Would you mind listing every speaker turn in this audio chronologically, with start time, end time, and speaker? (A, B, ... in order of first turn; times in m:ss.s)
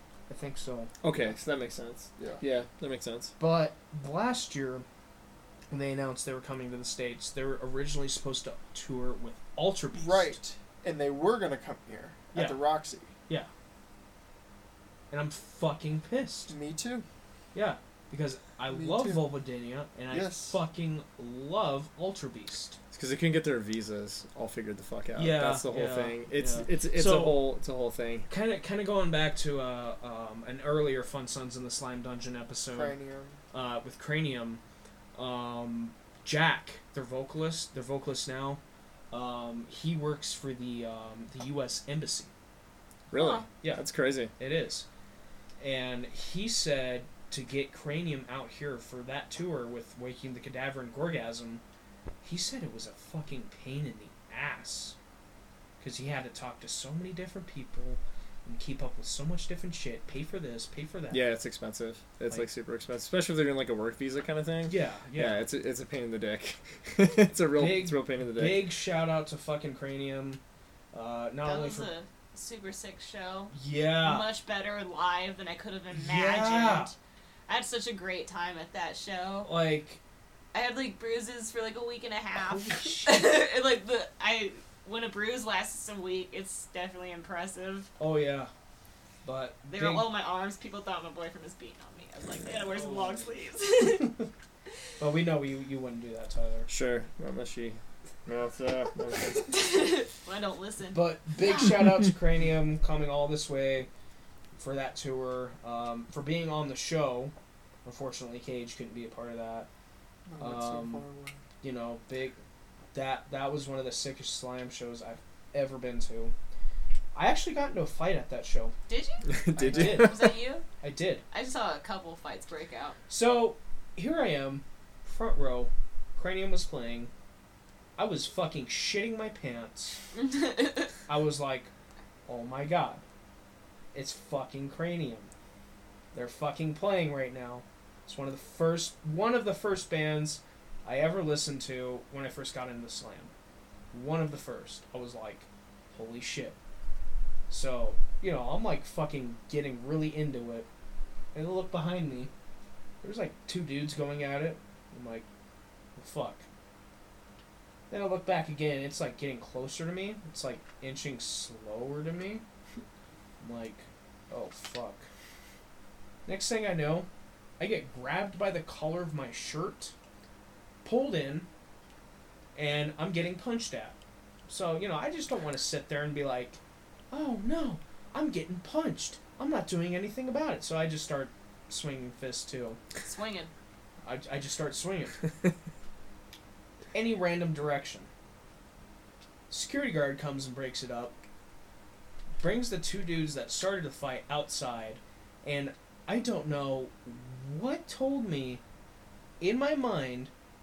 0:00.3-0:00.9 A
0:01.0-0:03.3 B
0:02.2-0:02.4 C
0:03.4-0:04.9 A
0:05.7-0:10.4 A
0:09.9-0:13.1 C
0:12.3-0:12.7 A
0:15.1-0:16.5 A
0:16.5-0:17.1 C
0:17.5-0:22.8 A
0:18.7-0:19.3 C
0:20.1-0:20.6 C
0:22.9-0:28.3 B
0:25.2-0:27.5 A
0:28.3-0:33.0 A
0:32.7-0:33.4 C
0:33.5-0:34.6 A
0:35.2-0:42.3 A
0:43.1-0:44.3 B
0:43.1-0:43.5 D
0:44.4-0:44.9 A
0:45.6-0:51.6 A
0:52.2-0:55.0 A
0:55.8-1:01.2 A
1:01.1-1:08.7 B
1:04.7-1:05.4 A
1:07.6-1:10.4 A
1:10.9-1:11.9 A
1:11.4-1:17.0 D
1:13.5-1:14.3 A
1:15.9-1:16.9 A
1:17.5-1:19.5 D
1:19.4-1:20.0 A
1:20.5-1:27.9 D
1:22.4-1:23.2 A
1:28.0-1:28.5 A
1:29.2-1:30.1 A
1:29.7-1:34.1 D
1:32.5-1:33.3 A
1:35.0-1:36.7 A
1:36.7-1:39.6 B
1:39.4-1:41.7 D
1:40.9-1:43.9 A
1:44.6-1:47.3 A
1:47.8-1:49.7 A
1:50.3-1:51.4 C
1:50.4-1:51.1 A
1:51.6-1:52.4 A
1:52.9-1:56.3 A
1:57.1-1:58.8 A
1:58.9-1:59.3 D
1:59.3-2:00.3 B
1:59.5-2:01.2 A
1:59.6-1:59.9 C
1:59.8-2:00.6 D
2:01.3-2:03.0 D
2:03.1-2:07.1 A
2:08.0-2:10.0 A
2:10.1-2:10.9 D
2:11.1-2:11.7 A
2:12.3-2:13.0 A
2:13.9-2:15.3 A
2:16.1-2:23.3 A
2:23.9-2:26.6 A
2:27.5-2:30.7 A
2:31.3-2:32.3 A
2:33.0-2:35.3 A
2:36.0-2:36.4 A
2:37.9-2:42.4 A
2:43.4-2:45.1 A
2:46.3-2:47.1 A
2:47.6-2:49.9 A
2:50.8-2:51.5 A
2:52.6-2:54.0 A
2:54.5-2:56.6 A
2:57.1-3:02.8 A
3:03.0-3:03.5 D
3:04.0-3:05.2 A
3:06.9-3:08.1 A
3:09.5-3:11.2 A
3:12.4-3:18.6 A
3:19.4-3:20.3 A